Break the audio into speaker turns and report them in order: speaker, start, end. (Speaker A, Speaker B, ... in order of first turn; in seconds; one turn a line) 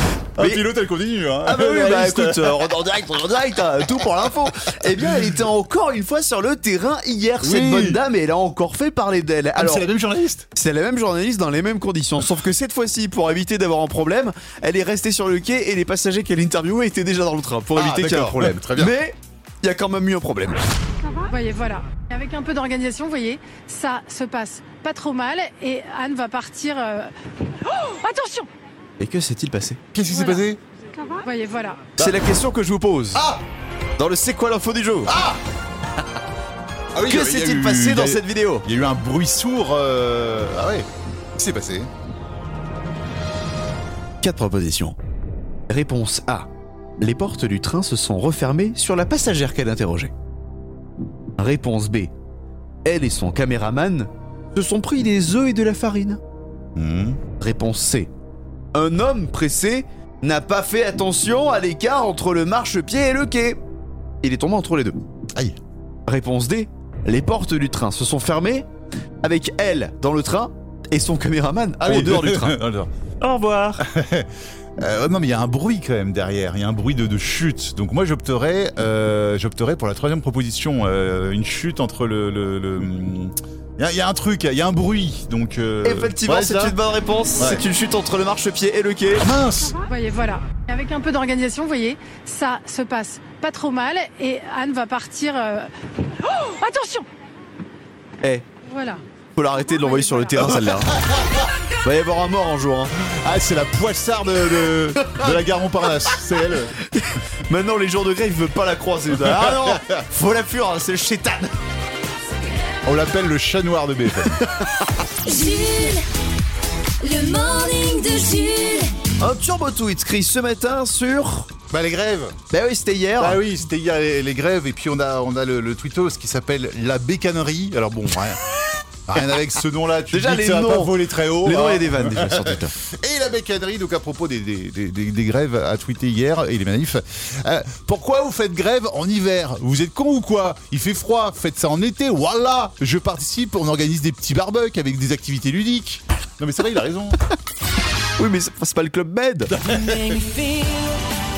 Speaker A: 0.4-0.7
Speaker B: 0.4-2.7
Speaker A: 1.4-9.9
Speaker B: 7.4-8.0
Speaker B: 9.6-10.5
Speaker A: 10.6-20.6
Speaker B: 17.8-19.0
Speaker C: 21.2-28.5
Speaker A: 29.0-29.8
Speaker B: 29.9-30.6
Speaker C: 30.1-30.5
Speaker C: 31.1-31.9
Speaker A: 32.0-33.3
Speaker B: 32.0-32.2
Speaker B: 33.1-33.4
Speaker A: 34.0-35.1
Speaker B: 35.1-35.4
Speaker B: 37.0-41.9
Speaker A: 37.1-38.7
Speaker A: 44.2-45.0
Speaker A: 45.7-46.5
Speaker A: 47.0-50.1
Speaker A: 51.4-52.1
Speaker A: 52.9-56.2
Speaker B: 56.8-57.2
Speaker A: 57.4-58.1
Speaker A: 58.7-63.6
Speaker A: 64.2-65.0
Speaker A: 66.1-68.7
Speaker A: 69.2-72.6
Speaker B: 71.8-72.9
Speaker A: 73.2-73.8
Speaker B: 73.8-86.8
Speaker A: 85.8-89.3
Speaker B: 87.4-87.6
Speaker B: 89.2-89.8
Speaker C: 89.8-97.1
Speaker C: 98.6-99.0
Speaker A: 99.4-101.0
Speaker C: 99.7-100.5
Speaker A: 101.8-103.0
Speaker B: 103.1-106.8
Speaker A: 105.0-105.3
Speaker A: 106.9-111.5
Speaker B: 109.2-109.9
Speaker B: 112.8-114.4
Speaker D: 115.2-116.0
Speaker D: 117.0-118.9
Speaker A: 119.2-121.5
Speaker B: 121.7-122.4
Speaker A: 122.5-123.4
Speaker B: 123.2-128.4
Speaker B: 129.1-147.2
Speaker A: 130.1-132.7
Speaker A: 148.2-149.7
Speaker B: 149.5-150.2